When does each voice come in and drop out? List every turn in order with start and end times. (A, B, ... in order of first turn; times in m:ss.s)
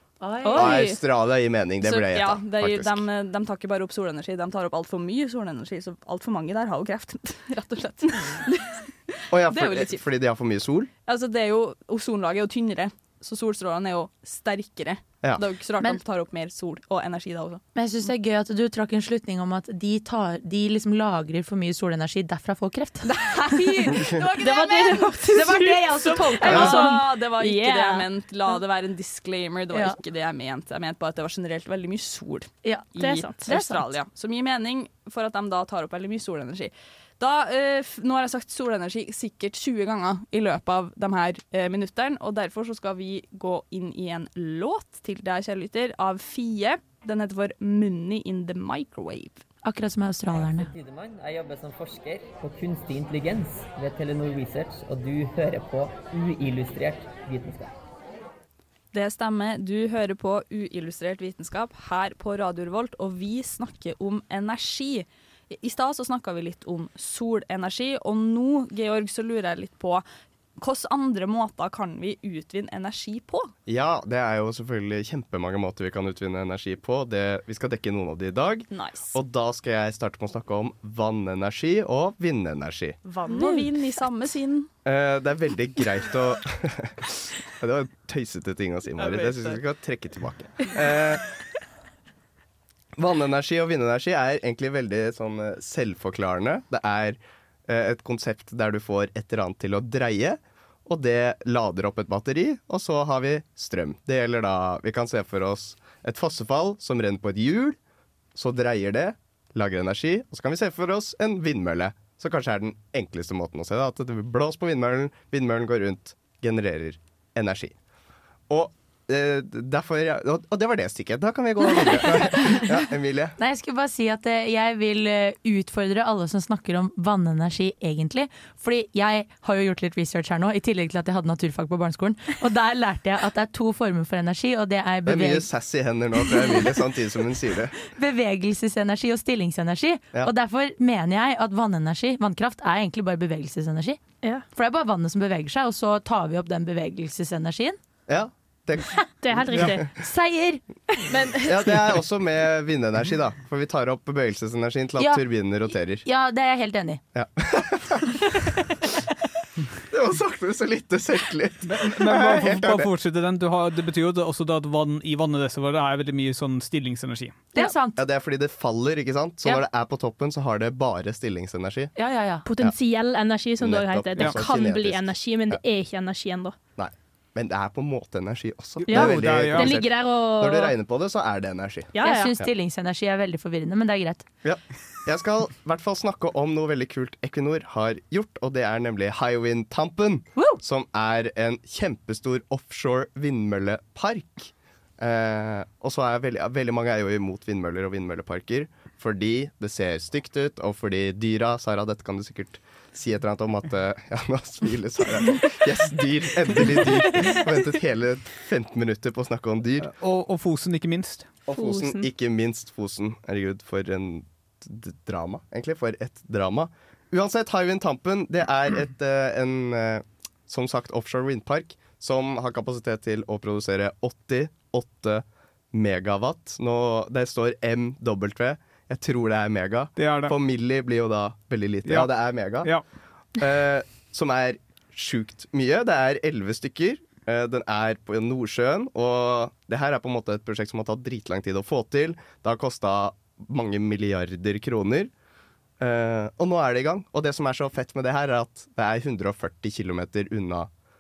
0:00.2-0:00.7 A
0:00.4-0:01.0 B
0:00.5-0:03.0 C
0:01.8-0:10.0 D
0:09.3-0:10.9 C
0:11.1-0:17.6 D
0:17.7-0:24.1 A
0:23.0-0:49.4 D
0:24.2-0:28.1 B
0:25.3-0:27.0 A
0:29.7-0:30.0 A
0:33.0-0:33.8 B
0:49.6-0:50.7 A
0:50.3-0:57.7 E
0:58.9-1:10.0 D
1:10.6-1:13.5 D
1:13.7-1:23.0 C
1:18.7-1:19.1 D
1:23.0-1:24.7 D
1:23.3-1:23.6 A
1:24.8-1:31.2 C
1:29.0-1:29.6 D
1:33.0-1:47.8 C
1:48.3-1:57.8 C
1:58.5-2:03.4 C
2:03.4-2:15.5 A
2:15.0-2:17.8 C
2:17.9-2:24.0 A
2:24.5-2:27.8 A
2:28.1-2:29.8 C
2:29.2-2:29.8 B
2:29.9-2:30.6 A
2:31.4-2:36.0 C
2:35.0-2:35.2 A
2:36.0-2:37.0 A
2:37.1-2:38.2 C
2:39.9-2:42.9 C
2:41.7-2:47.5 F
2:47.5-2:48.0 A
2:48.0-2:51.9 C
2:52.0-2:52.4 A
2:52.4-2:56.6 B
2:53.6-2:55.6 C
2:56.8-3:02.5 C
2:58.8-2:59.8 F
2:58.9-3:00.7 B
3:01.9-3:02.3 B
3:02.0-3:04.2 A
3:04.4-3:29.9 C
3:29.8-3:31.4 F
3:31.5-3:52.7 C
3:31.5-3:32.1 B
3:50.0-3:50.4 F
3:51.8-3:52.8 F
3:53.4-4:05.1 C
4:05.8-4:10.7 C